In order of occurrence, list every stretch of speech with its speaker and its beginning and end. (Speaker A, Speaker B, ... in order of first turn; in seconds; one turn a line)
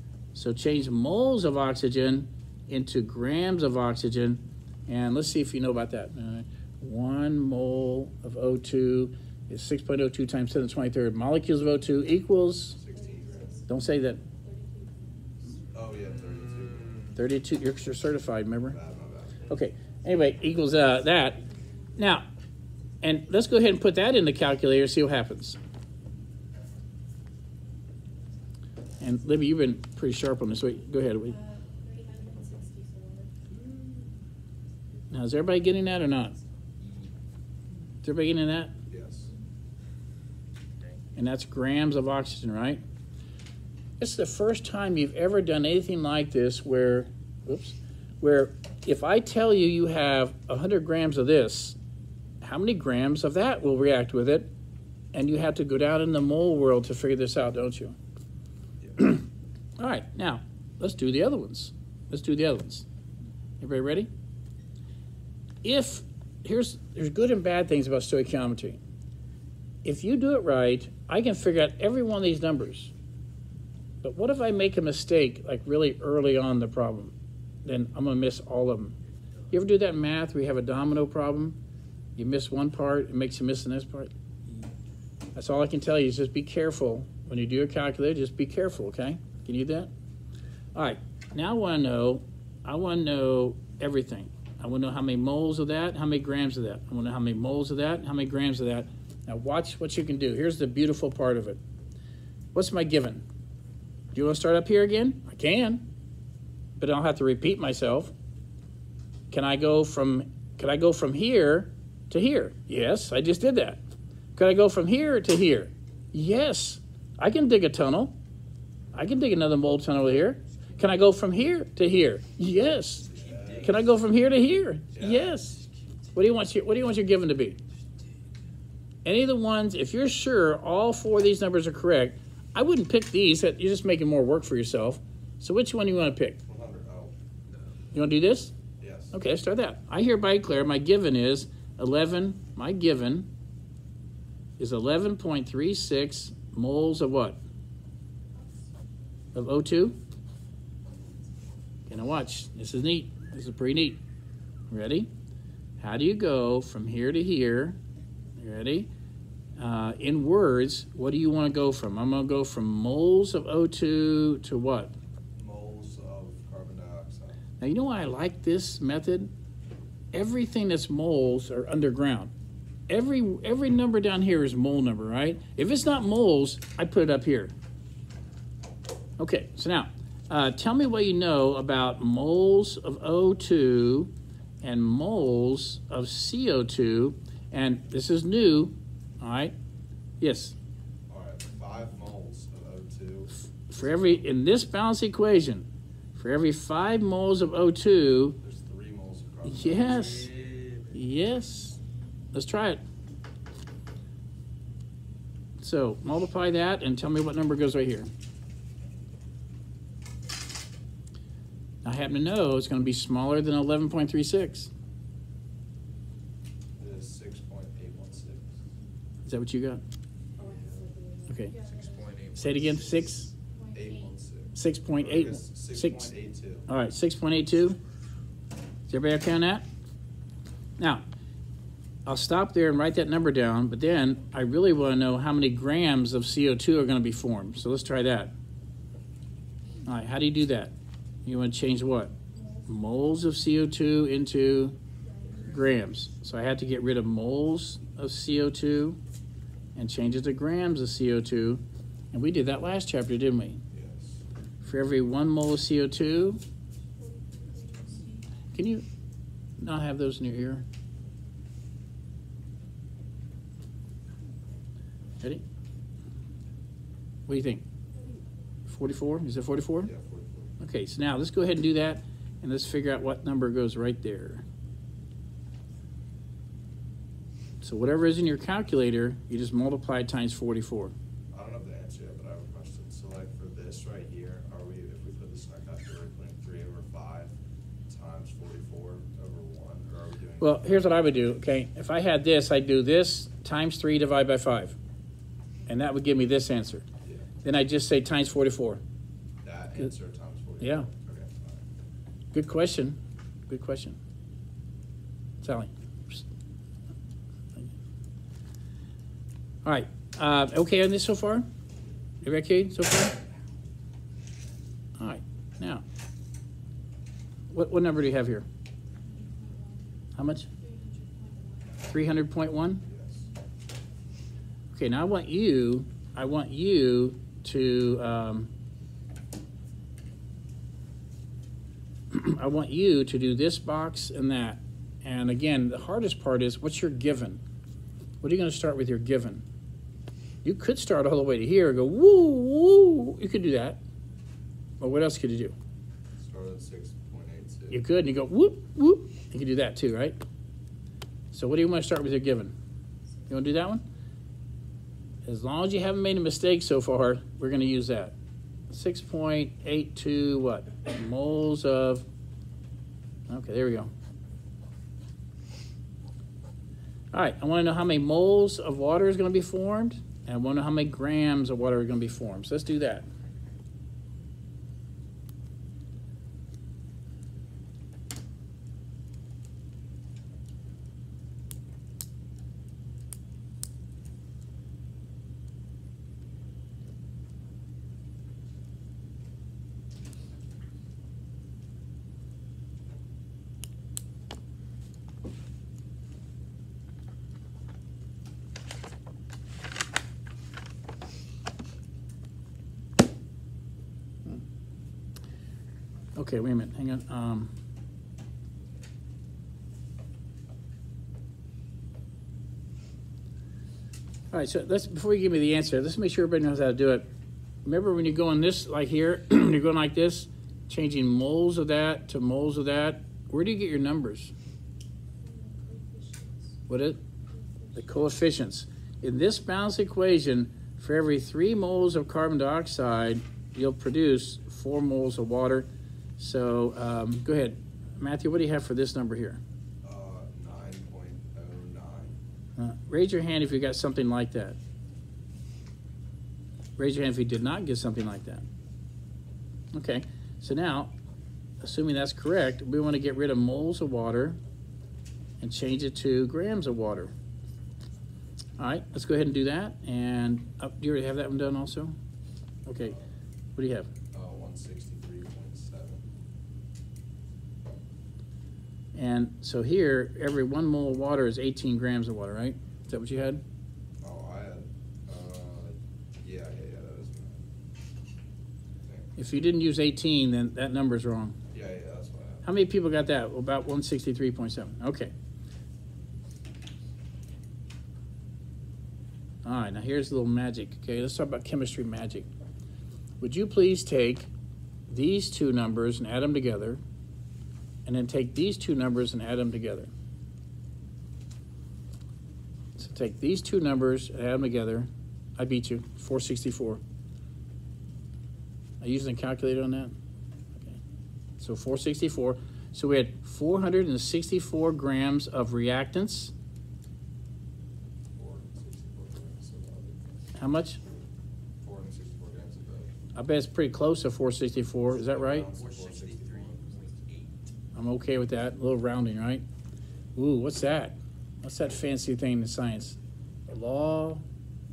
Speaker A: 0.3-12.8
Speaker B: 12.7-13.6
Speaker C: 12.9-15.7
Speaker A: 13.7-14.2
Speaker B: 15.7-17.1
Speaker D: 15.9-17.2
Speaker A: 17.1-18.8
Speaker B: 18.6-19.5
Speaker A: 19.5-21.4
Speaker C: 20.3-21.9
Speaker A: 22.0-22.3
Speaker A: 23.0-25.6
Speaker A: 29.0-31.4
Speaker C: 31.2-33.4
Speaker A: 35.1-36.4
Speaker D: 36.8-37.1
Speaker A: 38.0-38.7
Speaker B: 38.9-39.3
Speaker A: 41.1-42.8
Speaker A: 44.0-51.8
Speaker A: 52.4-54.5
Speaker A: 55.1-58.0
Speaker A: 59.0-59.2
Speaker A: 59.8-62.9
Speaker A: 63.6-64.1
Speaker A: 65.6-68.8
Speaker A: 69.8-72.9
Speaker A: 74.0-77.1
Speaker A: 77.7-79.0
Speaker A: 79.5-81.6
Speaker A: 82.2-84.1
Speaker A: 85.3-89.9
Speaker A: 90.8-101.6
Speaker A: 102.5-103.2
Speaker A: 104.1-105.9
Speaker A: 106.8-108.1
Speaker A: 109.3-113.8
Speaker A: 114.4-118.2
Speaker A: 118.9-123.1
Speaker D: 120.5-120.9
Speaker B: 123.0-123.8
Speaker D: 123.0-123.9
Speaker A: 123.6-125.6
Speaker B: 124.9-125.3
Speaker D: 125.0-126.2
Speaker A: 126.2-127.6
Speaker A: 129.1-136.4
Speaker B: 136.4-137.2
Speaker A: 137.9-138.5
Speaker B: 138.8-139.2
Speaker A: 139.1-143.3
Speaker A: 144.6-147.4
Speaker A: 149.3-150.0
Speaker A: 151.9-154.0
Speaker A: 154.7-155.1
Speaker A: 155.8-157.8
Speaker A: 158.4-158.9
Speaker A: 159.6-164.9
Speaker B: 165.4-167.4
Speaker A: 167.6-169.3
Speaker A: 170.1-172.3
Speaker A: 172.9-177.5
Speaker A: 179.2-189.6
Speaker A: 190.2-190.5
Speaker B: 191.1-194.4
Speaker A: 193.7-198.4
Speaker B: 198.4-200.2
Speaker A: 199.4-200.3
Speaker D: 199.7-201.0
Speaker A: 200.9-201.8
Speaker A: 202.3-202.8
Speaker A: 205.6-208.1
Speaker A: 211.8-214.7
Speaker B: 216.8-218.5
Speaker A: 219.2-219.8
Speaker C: 220.3-222.1
Speaker B: 220.4-220.9
Speaker A: 221.3-221.5
Speaker D: 221.5-223.2
Speaker A: 222.4-223.3
Speaker C: 223.5-224.4
Speaker B: 223.7-226.7
Speaker A: 224.6-226.1
Speaker A: 226.7-227.8
Speaker A: 228.9-229.7
Speaker A: 230.8-231.0
Speaker A: 232.1-238.3
Speaker A: 239.9-240.7
Speaker A: 241.2-242.1
Speaker C: 242.2-243.0
Speaker A: 242.7-244.8
Speaker C: 245.0-245.9
Speaker A: 245.4-249.0
Speaker A: 249.8-253.6
Speaker B: 253.7-254.2
Speaker A: 254.6-256.4
Speaker C: 257.0-258.3
Speaker A: 258.5-258.9
Speaker A: 259.6-260.6
Speaker A: 267.3-267.6
Speaker A: 268.7-269.9
Speaker B: 269.8-270.6
Speaker A: 270.6-274.4
Speaker A: 277.6-280.9
Speaker B: 281.3-287.3
Speaker B: 287.9-291.2
Speaker A: 290.4-294.8
Speaker A: 295.7-296.9
Speaker B: 297.0-297.3
Speaker A: 297.4-298.8
Speaker B: 299.4-301.6
Speaker A: 300.6-300.9
Speaker A: 302.3-304.0
Speaker A: 305.4-306.2
Speaker A: 309.6-311.5
Speaker A: 312.2-313.2
Speaker A: 315.0-315.8
Speaker A: 317.5-318.5
Speaker C: 319.0-319.9
Speaker A: 320.2-320.5
Speaker C: 320.5-321.9
Speaker A: 321.9-322.8
Speaker B: 322.9-323.3
Speaker A: 324.7-328.5
Speaker A: 332.1-337.4
Speaker A: 338.2-339.4
Speaker A: 340.4-343.8
Speaker A: 344.8-345.6
Speaker B: 346.2-347.9
Speaker A: 347.7-350.2
Speaker A: 351.3-352.6
Speaker A: 353.3-353.9
Speaker A: 355.2-358.1
Speaker A: 358.7-362.1
Speaker A: 363.3-363.9
Speaker A: 367.1-373.1
Speaker A: 406.1-407.5
Speaker A: 414.3-417.1
Speaker A: 417.6-424.3
Speaker C: 425.2-426.6
Speaker A: 426.7-427.0
Speaker C: 427.3-427.9
Speaker A: 427.7-439.4
Speaker B: 439.8-442.2
Speaker A: 442.6-444.6
Speaker A: 446.8-448.5
Speaker A: 449.7-450.9
Speaker A: 451.6-454.4
Speaker A: 455.4-457.1
Speaker A: 458.6-461.9
Speaker A: 462.7-463.0
Speaker A: 463.6-463.9
Speaker B: 464.1-466.1
Speaker A: 468.9-473.4
Speaker B: 474.0-477.5
Speaker B: 478.8-479.1
Speaker A: 479.2-481.4
Speaker B: 481.5-482.5
Speaker A: 482.4-485.1
Speaker A: 489.4-492.3
Speaker A: 493.2-494.3
Speaker A: 494.9-496.8
Speaker A: 497.9-499.9
Speaker A: 502.8-506.8
Speaker A: 508.8-509.9
Speaker A: 511.4-516.3
Speaker B: 518.1-520.0
Speaker A: 520.4-520.8
Speaker B: 521.6-522.9
Speaker A: 523.1-525.5
Speaker B: 524.9-526.7
Speaker D: 525.5-527.5
Speaker A: 527.8-529.5
Speaker A: 530.2-533.0
Speaker A: 533.5-534.2